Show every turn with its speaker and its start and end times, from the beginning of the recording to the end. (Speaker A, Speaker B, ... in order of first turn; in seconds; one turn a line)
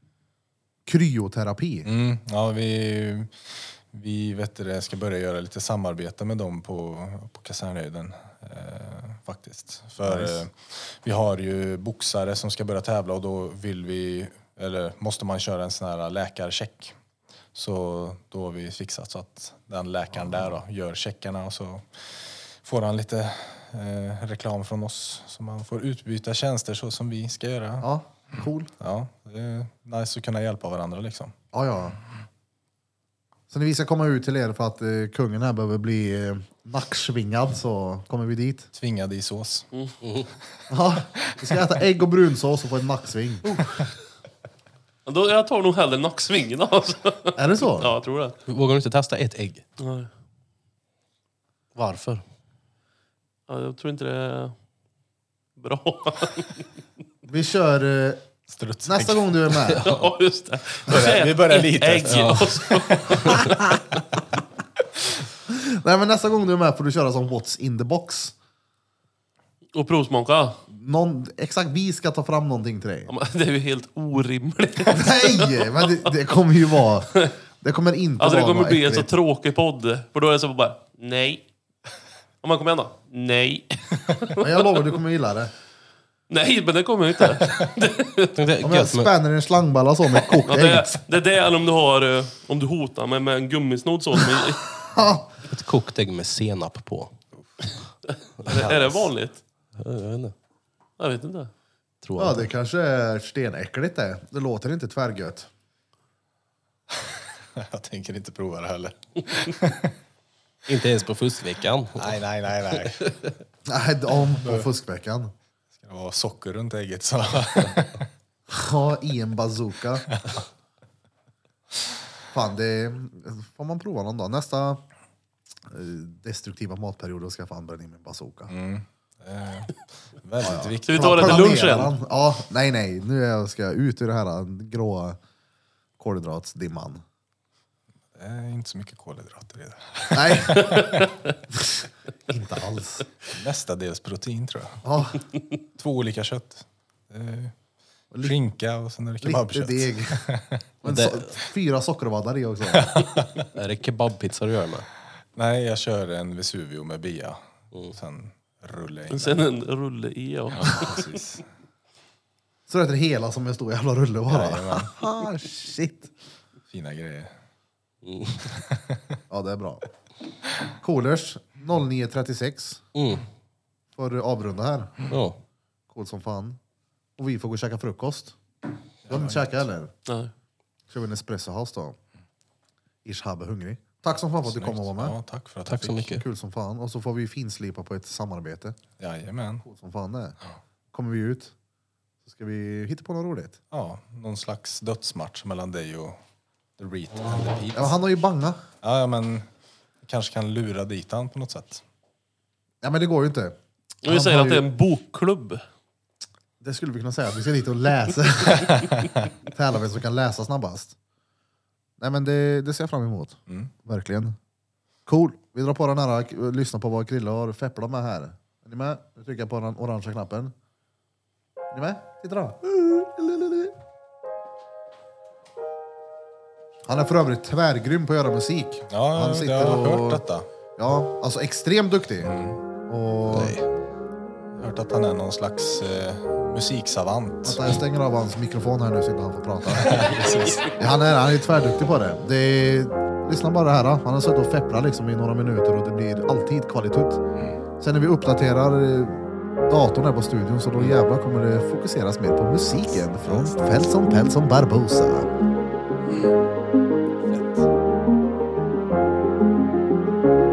Speaker A: 0.8-1.9
Speaker B: 1.8-16.9
Speaker A: 10.0-10.4
Speaker B: 17.5-27.9
Speaker A: 27.8-28.7
Speaker B: 28.8-31.3
Speaker A: 31.5-32.0
Speaker A: 33.5-38.7
Speaker B: 38.7-39.7
Speaker C: 40.0-40.3
Speaker A: 40.7-43.6
Speaker D: 43.5-43.8
Speaker D: 45.0-48.4
Speaker A: 47.4-47.9
Speaker C: 48.5-49.6
Speaker D: 49.8-50.1
Speaker C: 51.8-52.2
Speaker D: 53.5-54.5
Speaker D: 55.6-56.6
Speaker A: 57.2-58.2
Speaker B: 58.5-59.5
Speaker A: 58.8-59.9
Speaker C: 59.7-60.0
Speaker D: 59.7-63.7
Speaker B: 60.9-63.5
Speaker C: 62.0-62.5
Speaker A: 63.2-63.6
Speaker A: 65.5-68.3
Speaker D: 69.7-70.6
Speaker A: 70.7-73.1
Speaker D: 73.1-76.1
Speaker A: 74.9-79.1
Speaker D: 78.2-81.4
Speaker D: 82.4-84.8
Speaker A: 84.4-85.5
Speaker D: 86.3-88.4
Speaker C: 88.3-89.1
Speaker A: 88.6-91.0
Speaker D: 90.4-94.7
Speaker A: 94.8-95.3
Speaker C: 95.4-97.1
Speaker D: 98.2-99.4
Speaker B: 98.5-99.0
Speaker C: 99.8-100.3
Speaker D: 101.0-101.5
Speaker C: 102.0-102.5
Speaker A: 102.2-105.5
Speaker B: 106.9-110.0
Speaker C: 110.7-112.2
Speaker B: 112.0-113.0
Speaker C: 112.7-113.3
Speaker A: 113.7-115.3
Speaker B: 114.4-114.7
Speaker B: 115.8-118.1
Speaker A: 118.5-120.2
Speaker A: 122.3-124.8
Speaker A: 125.7-128.5
Speaker B: 128.5-131.7
Speaker A: 130.4-135.2
Speaker D: 130.9-131.9
Speaker A: 136.0-137.0
Speaker B: 138.1-141.1
Speaker A: 140.1-140.9
Speaker D: 140.6-141.0
Speaker A: 141.5-143.1
Speaker B: 143.3-144.8
Speaker A: 144.8-145.2
Speaker B: 145.7-147.5
Speaker A: 148.1-148.4
Speaker B: 148.2-150.6
Speaker A: 149.2-150.2
Speaker A: 150.8-153.2
Speaker C: 150.8-151.3
Speaker B: 152.7-153.4
Speaker C: 153.5-154.9
Speaker B: 155.3-159.5
Speaker D: 159.1-161.2
Speaker B: 160.5-161.4
Speaker A: 162.7-166.1
Speaker B: 164.3-165.0
Speaker B: 166.7-167.3
Speaker C: 168.0-168.4
Speaker B: 168.4-169.2
Speaker A: 169.3-169.8
Speaker A: 170.8-172.8
Speaker C: 172.9-173.2
Speaker A: 173.9-174.9
Speaker C: 175.1-175.4
Speaker A: 175.9-176.6
Speaker A: 177.2-178.3
Speaker B: 179.1-179.5
Speaker A: 179.1-179.9
Speaker A: 180.9-181.9
Speaker A: 183.0-185.2
Speaker B: 184.4-186.2
Speaker C: 185.7-186.2
Speaker A: 186.1-188.8
Speaker B: 189.0-189.7
Speaker A: 189.7-190.4
Speaker A: 190.9-191.5
Speaker A: 192.2-193.6
Speaker B: 193.7-196.2
Speaker B: 196.8-198.0
Speaker A: 197.7-198.6
Speaker B: 198.8-199.5
Speaker B: 200.0-201.8
Speaker A: 202.8-204.7
Speaker D: 204.0-205.6
Speaker A: 206.6-208.9
Speaker A: 209.4-210.9
Speaker A: 212.0-214.3
Speaker A: 215.1-220.5
Speaker A: 221.7-223.8
Speaker A: 226.8-230.2
Speaker B: 228.9-230.5
Speaker A: 230.8-232.3
Speaker B: 232.2-232.6
Speaker A: 232.9-233.6
Speaker B: 233.2-233.7
Speaker B: 234.5-237.7
Speaker A: 237.4-247.2
Speaker B: 239.7-240.8
Speaker A: 247.8-255.3
Speaker B: 253.2-253.5
Speaker B: 257.3-257.7